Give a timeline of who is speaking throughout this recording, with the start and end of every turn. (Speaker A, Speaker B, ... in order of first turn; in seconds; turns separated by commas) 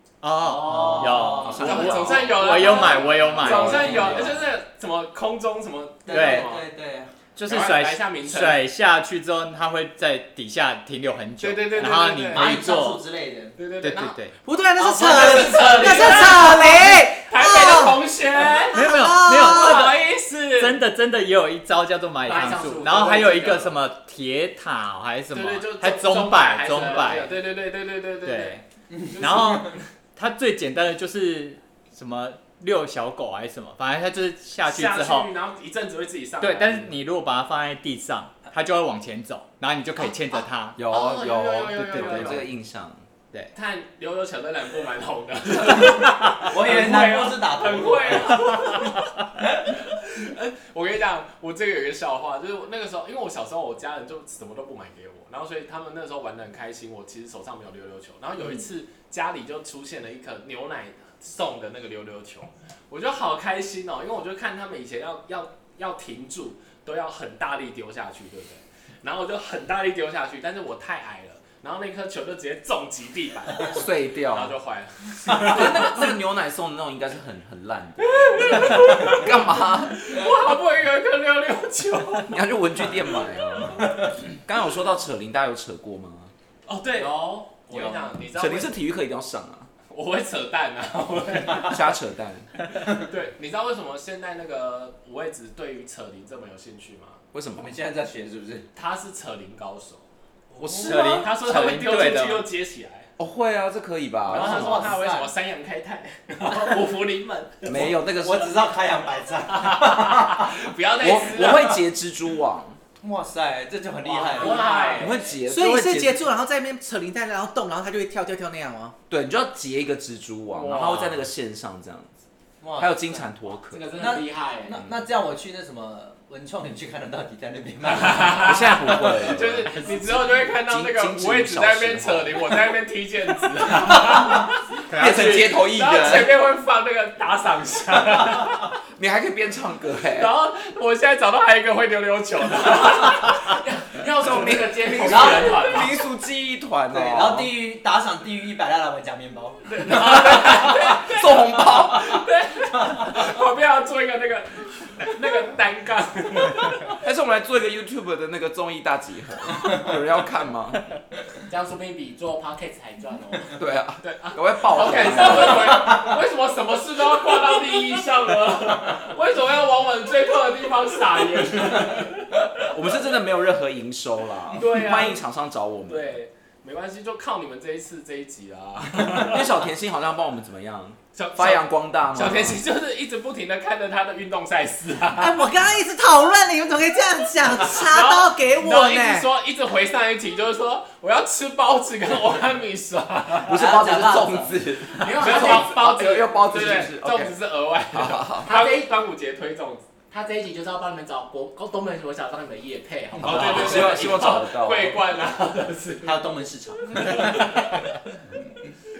Speaker A: 0.2-4.3, Speaker B: 0.4-2.0, Speaker C: 0.9-6.6, Speaker D: 1.5-2.5, Speaker B: 2.5-4.3, Speaker D: 3.4-4.4, Speaker B: 6.0-7.2, Speaker A: 6.1-6.6, Speaker A: 7.3-13.0, Speaker C: 7.5-8.6, Speaker C: 11.4-12.5, Speaker B: 12.3-13.6, Speaker C: 13.6-14.2, Speaker A: 13.8-14.3, Speaker E: 14.4-18.0, Speaker B: 14.8-16.6, Speaker C: 14.9-20.8, Speaker E: 18.7-19.9, Speaker A: 18.7-27.4, Speaker F: 22.3-23.1, Speaker C: 22.3-23.8, Speaker C: 25.3-28.6, Speaker A: 28.2-28.6, Speaker B: 28.9-29.8, Speaker C: 29.1-29.8, Speaker A: 29.2-35.3, Speaker C: 34.6-36.9, Speaker A: 36.4-40.8, Speaker D: 40.8-43.0, Speaker C: 40.9-42.4, Speaker A: 41.7-42.5, Speaker C: 43.5-76.0, Speaker B: 45.6-48.6, Speaker D: 73.6-74.5, Speaker D: 75.3-80.2, Speaker C: 78.0-83.1, Speaker B: 78.5-79.2, Speaker D: 82.3-86.3, Speaker C: 86.7-88.8, Speaker B: 87.7-88.0, Speaker D: 88.3-89.7, Speaker C: 89.9-91.8, Speaker D: 91.6-92.5, Speaker C: 92.8-97.2, Speaker D: 97.3-97.7, Speaker B: 97.5-98.7, Speaker C: 98.8-100.0, Speaker B: 100.5-101.3, Speaker C: 100.6-103.1, Speaker A: 100.7-102.5, Speaker D: 103.2-105.0, Speaker B: 104.3-105.3, Speaker C: 104.3-107.8, Speaker F: 106.6-107.0, Speaker D: 107.7-108.5, Speaker B: 107.7-110.5, Speaker C: 109.6-111.8, Speaker D: 111.0-112.8, Speaker B: 111.4-111.8, Speaker B: 113.0-115.1, Speaker C: 114.0-115.1, Speaker F: 114.2-115.3, Speaker D: 115.0-116.3, Speaker E: 115.4-119.0, Speaker D: 119.1-122.2, Speaker C: 120.5-120.8, Speaker F: 120.8-121.1, Speaker B: 122.6-123.3, Speaker D: 122.8-123.9, Speaker F: 123.7-124.8, Speaker B: 124.0-128.5, Speaker C: 127.9-134.6, Speaker D: 128.2-132.7, Speaker A: 134.9-135.6, Speaker D: 134.9-136.3, Speaker C: 135.5-138.7, Speaker D: 139.0-140.3, Speaker C: 140.1-143.6, Speaker F: 143.3-145.9, Speaker D: 144.2-147.5, Speaker B: 144.9-145.7, Speaker B: 146.9-150.6, Speaker C: 149.7-151.5, Speaker D: 149.8-152.2, Speaker C: 152.1-156.8, Speaker B: 152.6-153.1, Speaker D: 157.0-160.8, Speaker F: 161.5-163.6, Speaker D: 163.6-165.9, Speaker C: 164.0-172.7, Speaker F: 164.9-165.3, Speaker D: 172.7-176.2, Speaker C: 174.5-175.2, Speaker C: 175.9-179.5, Speaker D: 179.1-182.6, Speaker C: 181.1-185.4, Speaker E: 185.2-189.3, Speaker C: 187.6-193.6, Speaker D: 193.4-197.3, Speaker B: 193.5-194.6, Speaker F: 194.9-196.4, Speaker C: 195.2-199.9, Speaker D: 197.9-198.5, Speaker F: 198.4-198.9, Speaker F: 200.1-204.1, Speaker D: 203.2-205.0, Speaker C: 203.2-206.2, Speaker B: 206.0-207.5, Speaker C: 207.1-207.4